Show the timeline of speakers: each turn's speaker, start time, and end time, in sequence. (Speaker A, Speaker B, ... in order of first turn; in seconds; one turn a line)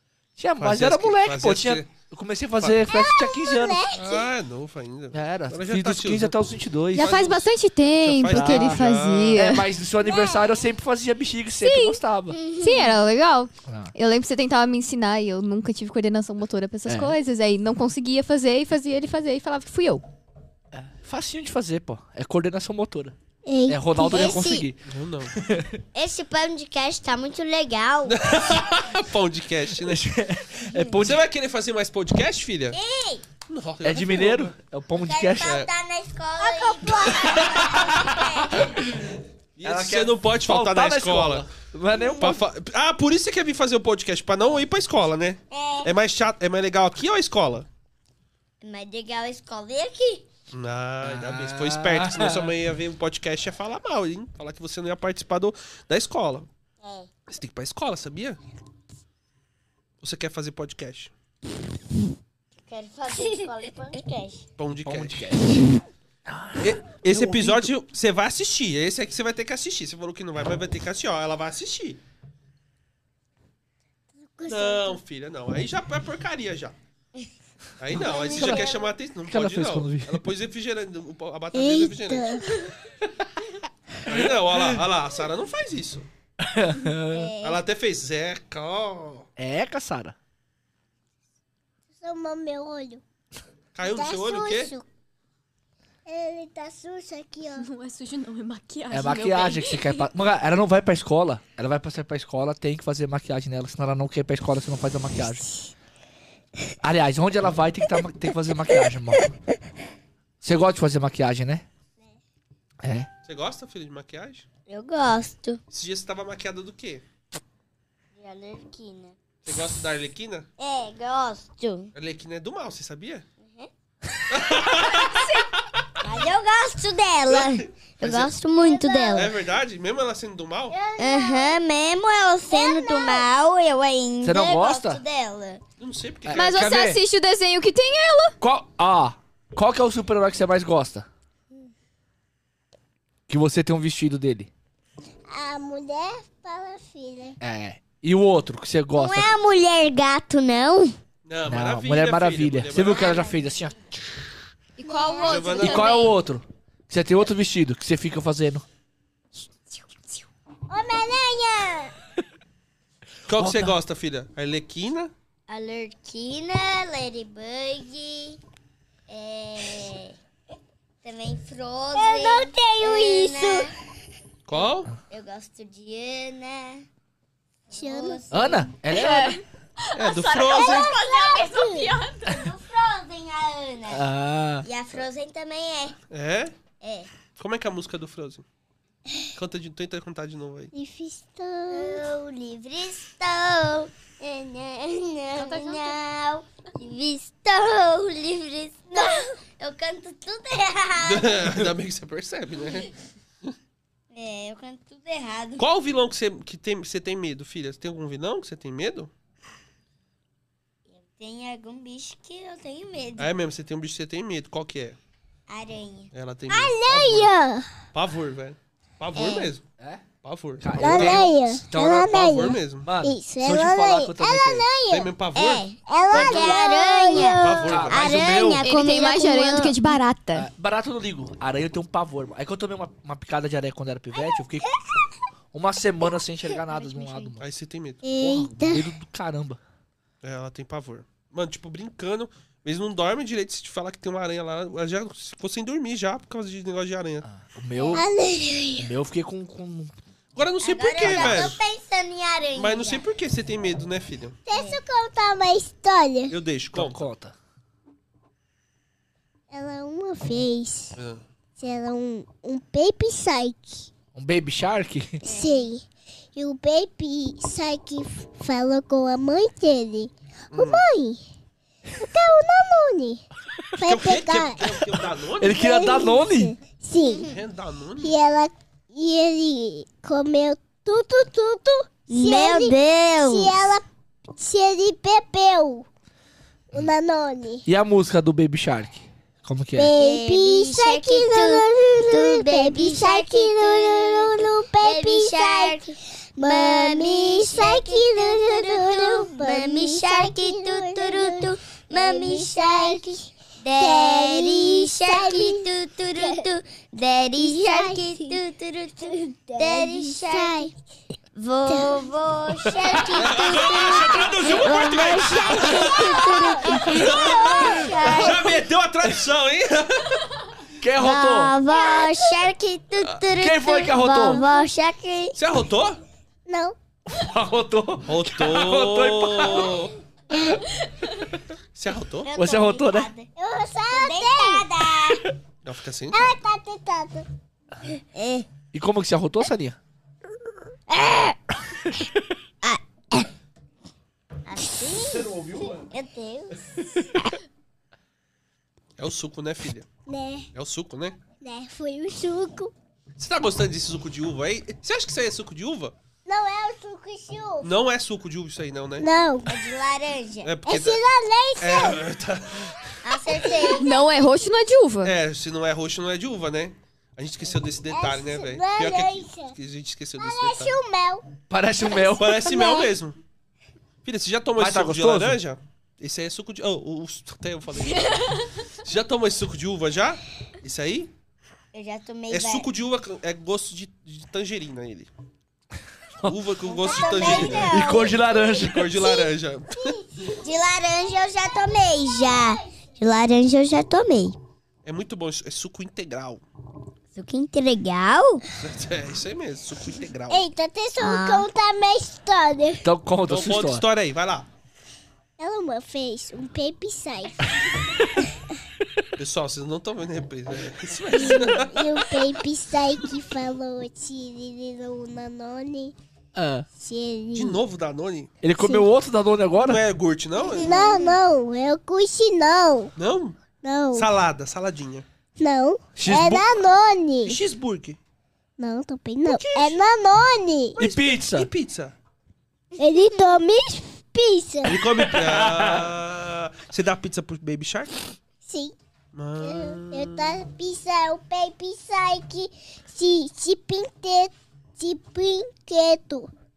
Speaker A: 0.4-3.8
Speaker B: 0.6-1.9
Speaker C: 2.9-4.3
Speaker B: 3.9-6.4
Speaker A: 5.1-7.2
Speaker D: 6.9-9.7
Speaker B: 6.9-9.4
Speaker A: 8.2-12.4
Speaker C: 10.0-10.6
Speaker D: 11.6-12.0
Speaker E: 12.3-13.0
Speaker D: 12.6-20.0
Speaker A: 13.7-13.9
Speaker A: 16.9-17.1
Speaker A: 20.7-23.1
Speaker C: 23.4-24.4
Speaker A: 23.7-24.8
Speaker E: 24.1-24.7
Speaker B: 24.9-25.4
Speaker A: 25.3-25.8
Speaker E: 25.9-28.3
Speaker B: 28.1-30.0
Speaker A: 29.8-31.2
Speaker B: 31.0-32.8
Speaker E: 32.7-33.2
Speaker B: 33.5-34.5
Speaker A: 33.8-35.6
Speaker E: 35.0-38.7
Speaker B: 35.4-35.7
Speaker C: 36.4-37.5
Speaker B: 37.2-37.8
Speaker A: 37.5-38.7
Speaker B: 39.5-41.5
Speaker A: 39.6-42.4
Speaker E: 42.0-42.3
Speaker B: 42.2-47.7
Speaker E: 45.5-45.9
Speaker E: 48.6-50.3
Speaker B: 50.5-56.5
Speaker A: 51.0-52.5
Speaker E: 56.8-57.1
Speaker B: 57.3-58.4
Speaker B: 60.0-61.1
Speaker E: 62.6-64.4
Speaker B: 64.6-65.3
Speaker A: 64.8-65.7
Speaker A: 66.3-67.7
Speaker B: 66.6-72.0
Speaker C: 74.2-75.0
Speaker B: 74.5-76.8
Speaker B: 77.8-82.5
Speaker E: 78.0-78.9
Speaker A: 78.3-78.7
Speaker A: 79.3-80.2
Speaker C: 81.5-82.6
Speaker B: 84.0-86.0
Speaker A: 86.4-87.3
Speaker E: 87.1-87.6
Speaker B: 87.4-89.3
Speaker A: 89.4-90.2
Speaker C: 92.0-93.0
Speaker B: 93.7-94.7
Speaker C: 93.8-94.8
Speaker C: 96.0-97.7
Speaker D: 97.5-100.0
Speaker A: 98.9-105.5
Speaker A: 106.8-109.3
Speaker A: 110.4-111.7
Speaker A: 112.8-113.1
Speaker B: 113.3-114.5
Speaker E: 114.7-115.6
Speaker B: 115.7-117.0
Speaker E: 118.2-119.2
Speaker B: 119.5-120.5
Speaker E: 120.6-121.9
Speaker B: 122.0-123.3
Speaker E: 123.4-123.7
Speaker B: 124.3-125.6
Speaker E: 126.0-129.3
Speaker B: 127.3-128.3
Speaker C: 128.6-129.3
Speaker B: 129.1-130.8
Speaker C: 130.7-131.6
Speaker E: 131.0-135.6
Speaker C: 132.5-133.3
Speaker A: 134.2-135.0
Speaker B: 135.8-136.7
Speaker A: 136.3-137.0
Speaker D: 136.3-138.3
Speaker A: 138.4-141.1
Speaker A: 143.3-144.5
Speaker C: 145.3-147.4
Speaker A: 147.4-149.3
Speaker E: 148.9-150.9
Speaker B: 151.3-153.2
Speaker A: 151.5-154.2
Speaker E: 152.9-153.3
Speaker D: 154.8-156.1
Speaker C: 154.8-155.6
Speaker B: 155.2-156.1
Speaker A: 155.6-158.6
Speaker C: 160.7-161.9
Speaker A: 163.3-163.7
Speaker B: 163.3-165.1
Speaker E: 165.5-168.4
Speaker E: 169.1-170.2
Speaker E: 171.0-173.7
Speaker C: 171.9-173.7
Speaker B: 174.5-174.9
Speaker E: 175.1-176.9
Speaker E: 177.7-178.7
Speaker C: 177.7-178.2
Speaker A: 178.3-179.4
Speaker D: 178.9-182.4
Speaker B: 179.9-180.9
Speaker C: 180.4-182.0
Speaker E: 180.6-181.4
Speaker E: 182.2-184.1
Speaker A: 183.9-184.6
Speaker E: 184.6-185.9
Speaker B: 186.1-186.5
Speaker E: 186.8-187.1
Speaker B: 187.4-188.4
Speaker B: 189.3-190.7
Speaker C: 190.7-192.0
Speaker E: 191.7-201.6
Speaker D: 195.4-195.9
Speaker C: 198.9-199.3
Speaker B: 201.0-202.9
Speaker E: 204.1-205.6
Speaker B: 205.6-209.1
Speaker E: 210.9-213.3
Speaker B: 213.2-215.0
Speaker E: 215.5-216.1
Speaker B: 216.1-217.3
Speaker C: 216.5-217.6
Speaker B: 217.9-219.6
Speaker E: 219.1-219.5
Speaker A: 219.8-220.1
Speaker B: 220.2-221.3
Speaker A: 220.6-224.7
Speaker C: 220.8-225.1
Speaker B: 222.0-222.9
Speaker B: 224.9-225.7
Speaker E: 225.3-229.9
Speaker C: 225.9-227.8
Speaker A: 226.1-226.5
Speaker B: 227.1-228.2
Speaker A: 227.7-228.7
Speaker D: 228.6-230.5
Speaker A: 230.3-234.7
Speaker A: 235.5-237.4
Speaker B: 237.4-238.0
Speaker C: 238.0-238.9
Speaker A: 238.2-239.6
Speaker B: 240.2-247.3
Speaker A: 247.2-248.1
Speaker E: 247.8-248.0
Speaker C: 247.9-248.9
Speaker A: 248.8-250.0
Speaker B: 250.3-251.6
Speaker E: 250.6-253.0
Speaker A: 251.0-251.5
Speaker B: 252.6-254.4
Speaker C: 254.4-256.3
Speaker E: 254.5-254.8
Speaker B: 256.3-257.0
Speaker A: 256.7-257.3
Speaker C: 259.5-261.0
Speaker B: 260.9-261.2
Speaker C: 261.6-263.9
Speaker A: 264.1-265.2
Speaker C: 265.2-271.2
Speaker E: 265.3-265.7
Speaker B: 270.5-270.8
Speaker C: 271.9-273.2
Speaker C: 273.8-274.7
Speaker B: 273.8-275.6
Speaker A: 275.4-276.5
Speaker C: 275.4-277.3
Speaker B: 277.2-278.1
Speaker C: 278.0-285.9
Speaker E: 282.1-283.7
Speaker C: 286.7-287.6
Speaker A: 287.6-289.9
Speaker C: 289.7-306.5
Speaker E: 289.9-310.7
Speaker C: 307.4-308.4
Speaker C: 309.0-310.8
Speaker E: 311.4-318.6
Speaker C: 311.7-312.1
Speaker C: 312.8-313.2
Speaker B: 313.1-320.3
Speaker C: 315.4-318.4
Speaker A: 320.8-321.5
Speaker E: 321.0-325.4
Speaker C: 321.8-322.1
Speaker A: 323.4-324.4
Speaker C: 324.3-324.6
Speaker B: 325.4-326.0
Speaker C: 326.5-326.8
Speaker A: 327.1-329.8
Speaker B: 328.1-329.9
Speaker E: 330.3-330.6
Speaker B: 331.7-332.3
Speaker E: 332.2-333.3
Speaker A: 332.4-333.1
Speaker C: 333.4-334.6
Speaker E: 333.9-335.2
Speaker B: 335.6-336.3
Speaker C: 336.1-337.3
Speaker E: 338.1-338.5
Speaker A: 338.7-339.8
Speaker E: 340.9-341.4
Speaker E: 342.6-343.3
Speaker E: 344.4-345.3
Speaker A: 345.0-345.9
Speaker E: 345.9-347.3
Speaker B: 349.0-349.9
Speaker C: 350.1-350.5
Speaker B: 350.6-351.2
Speaker C: 351.4-352.7
Speaker B: 353.2-355.9
Speaker C: 356.3-357.7
Speaker B: 357.6-359.1
Speaker C: 359.0-359.5
Speaker E: 359.4-360.5
Speaker B: 360.4-361.0
Speaker C: 360.6-362.0
Speaker B: 361.6-363.0
Speaker E: 363.0-364.0
Speaker D: 363.8-365.1
Speaker B: 365.0-370.8
Speaker C: 367.9-369.5
Speaker C: 370.2-371.3
Speaker A: 371.5-372.6
Speaker B: 372.2-373.2
Speaker C: 372.4-372.9
Speaker B: 374.0-378.3
Speaker A: 374.6-375.4
Speaker B: 378.8-381.1
Speaker E: 381.7-382.7
Speaker B: 382.3-385.1
Speaker B: 386.2-389.9
Speaker E: 386.6-388.4
Speaker A: 387.2-389.0
Speaker E: 389.0-389.3
Speaker E: 390.2-394.4
Speaker B: 394.8-396.4
Speaker E: 397.1-398.4
Speaker B: 398.6-400.4
Speaker C: 400.3-402.8
Speaker E: 401.0-401.5
Speaker A: 402.8-403.8
Speaker B: 403.3-404.4
Speaker C: 405.4-407.5
Speaker B: 409.2-411.9
Speaker C: 411.1-415.9
Speaker A: 416.3-416.6
Speaker C: 416.8-417.6
Speaker B: 417.3-418.3
Speaker A: 418.4-419.8
Speaker C: 418.6-418.9
Speaker B: 419.6-421.0
Speaker E: 420.4-421.1
Speaker C: 420.6-422.9
Speaker B: 423.0-423.4
Speaker C: 423.6-424.1
Speaker B: 423.9-425.1
Speaker C: 425.4-427.4
Speaker A: 425.9-426.5
Speaker B: 427.2-428.0
Speaker C: 428.6-430.8
Speaker B: 429.2-429.8
Speaker A: 430.8-431.5
Speaker B: 430.8-431.9
Speaker C: 432.8-434.8
Speaker B: 434.6-438.0
Speaker A: 434.9-435.9
Speaker C: 438.4-438.7
Speaker B: 439.1-440.4
Speaker C: 439.4-446.3